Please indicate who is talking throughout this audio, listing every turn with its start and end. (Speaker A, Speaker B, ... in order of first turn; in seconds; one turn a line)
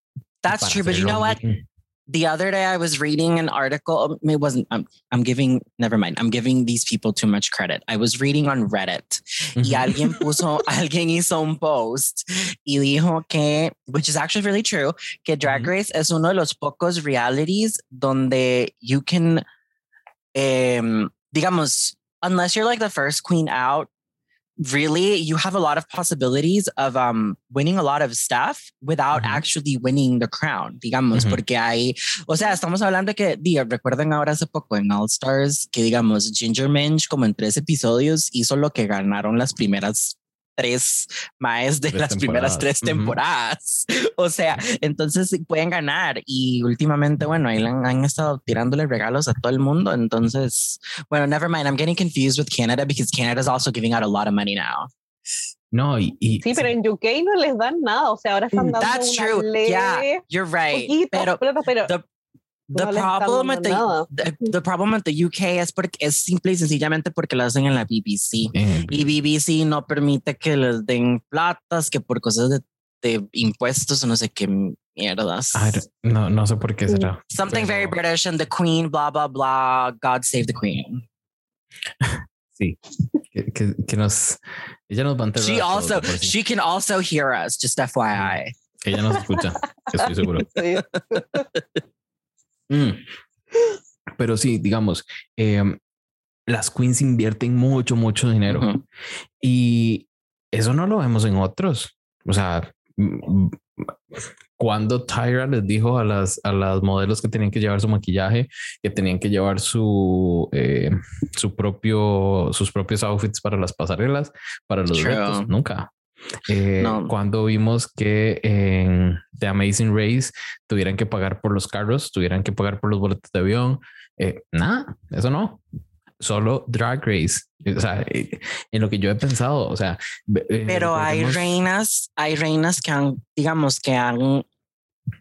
Speaker A: 0.4-1.4
Speaker B: 0.5-1.6
Speaker A: 2.1-19.4
Speaker B: 9.6-10.2
Speaker B: 15.4-15.7
Speaker A: 20.4-23.9
Speaker A: 24.6-54.9
Speaker B: 29.1-29.4
Speaker B: 31.1-31.4
Speaker B: 41.9-43.2
Speaker B: 55.7-56.7
Speaker C: 56.4-60.2
Speaker A: 58.5-62.0
Speaker C: 60.7-61.9
Speaker A: 62.7-75.8
Speaker C: 62.7-64.1
Speaker B: 68.5-69.1
Speaker B: 75.5-78.0
Speaker A: 77.3-81.0
Speaker B: 82.0-86.3
Speaker A: 85.4-88.5
Speaker B: 88.8-90.7
Speaker C: 90.4-91.4
Speaker A: 91.0-91.6
Speaker B: 92.7-93.0
Speaker B: 94.2-95.8
Speaker B: 96.5-98.7
Speaker A: 98.5-98.8
Speaker B: 99.4-103.9
Speaker B: 104.6-115.9
Speaker A: 114.9-115.5
Speaker B: 116.4-125.6
Speaker A: 116.8-117.1
Speaker B: 126.2-131.6
Speaker A: 130.7-134.4